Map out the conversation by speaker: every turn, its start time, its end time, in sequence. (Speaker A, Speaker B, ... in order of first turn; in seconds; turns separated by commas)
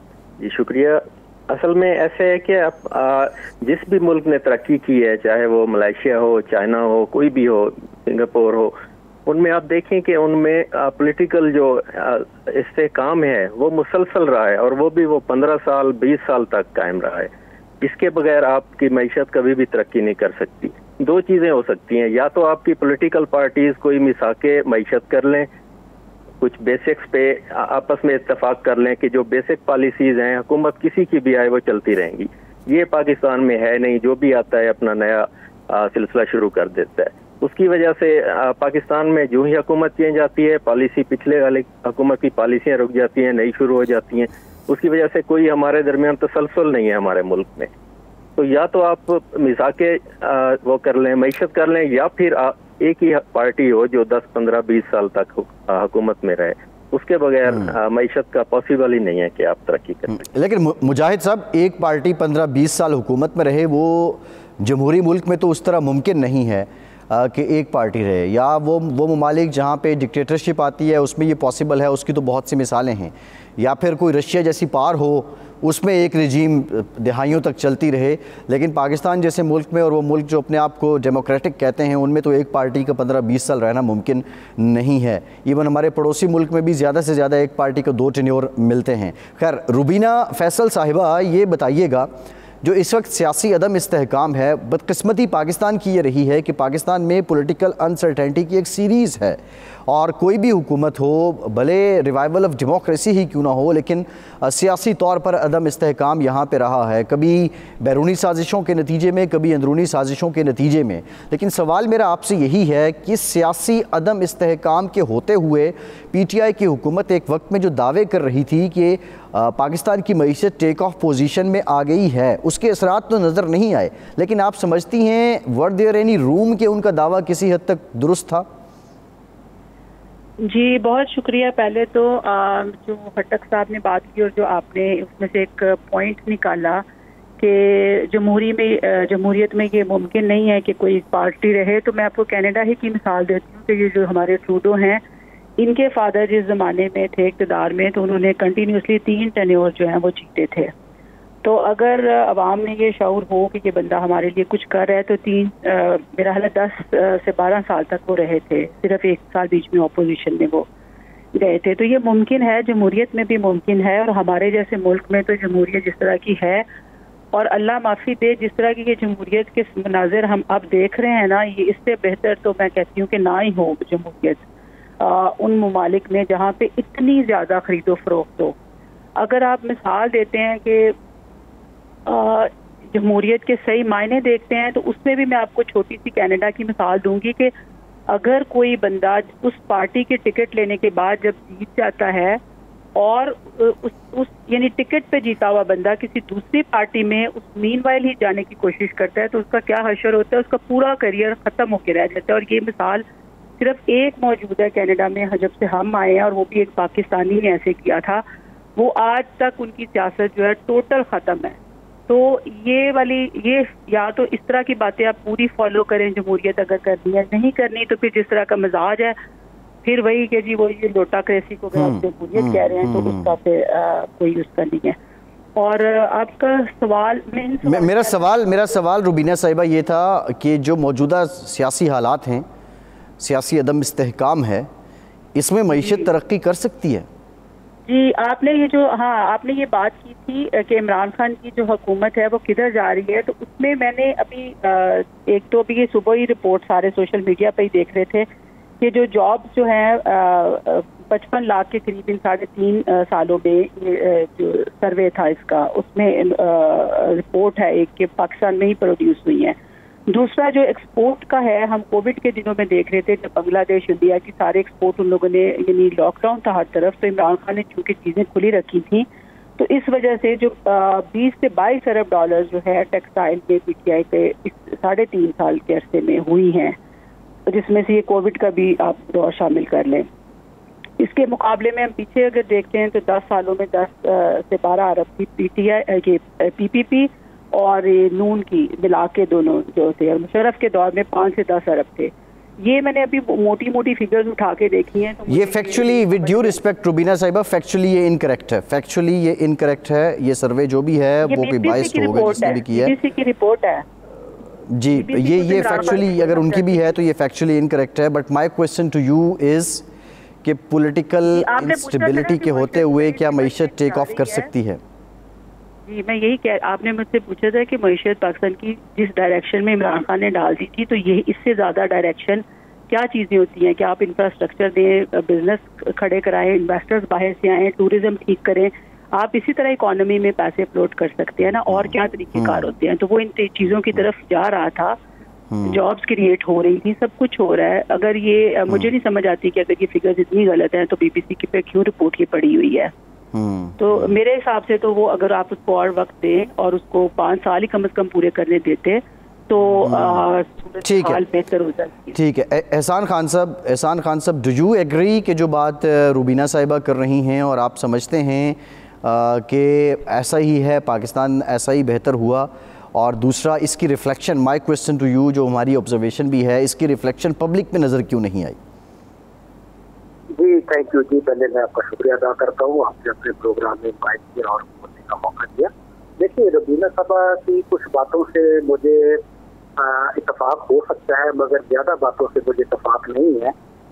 Speaker A: 0.4-8.8, Speaker A: 9.3-25.5, Speaker A: 26.4-47.7, Speaker A: 48.4-60.2, Speaker B: 60.1-92.1, Speaker B: 92.6-128.4, Speaker C: 130.4-136.8, Speaker C: 137.4-145.0, Speaker C: 145.6-150.7, Speaker C: 151.4-160.7, Speaker C: 161.3-166.7, Speaker C: 167.3-174.4, Speaker C: 175.0-178.6, Speaker C: 179.2-180.9, Speaker C: 182.1-187.5, Speaker C: 188.1-192.4, Speaker C: 192.9-203.0, Speaker C: 203.6-208.2, Speaker C: 208.8-211.6, Speaker C: 212.1-219.2, Speaker C: 219.8-224.9, Speaker B: 221.8-223.3, Speaker C: 225.6-228.2, Speaker B: 227.7-232.4, Speaker B: 233.2-234.7, Speaker B: 235.3-237.1, Speaker C: 235.7-236.1, Speaker C: 237.9-248.2, Speaker C: 248.8-259.6, Speaker C: 260.1-269.1, Speaker C: 269.6-276.8, Speaker C: 277.5-280.1, Speaker C: 281.0-296.6, Speaker B: 295.3-302.9, Speaker C: 301.2-303.8, Speaker B: 304.7-309.9, Speaker C: 304.9-306.9, Speaker B: 310.4-314.8, Speaker C: 311.2-314.5, Speaker C: 315.9-335.0, Speaker B: 331.7-332.6, Speaker B: 335.5-335.8, Speaker C: 335.6-342.9, Speaker B: 343.3-344.1, Speaker C: 343.8-352.2, Speaker B: 349.8-350.2, Speaker B: 350.8-351.2, Speaker B: 352.1-368.6, Speaker D: 370.3-379.2, Speaker D: 379.8-383.5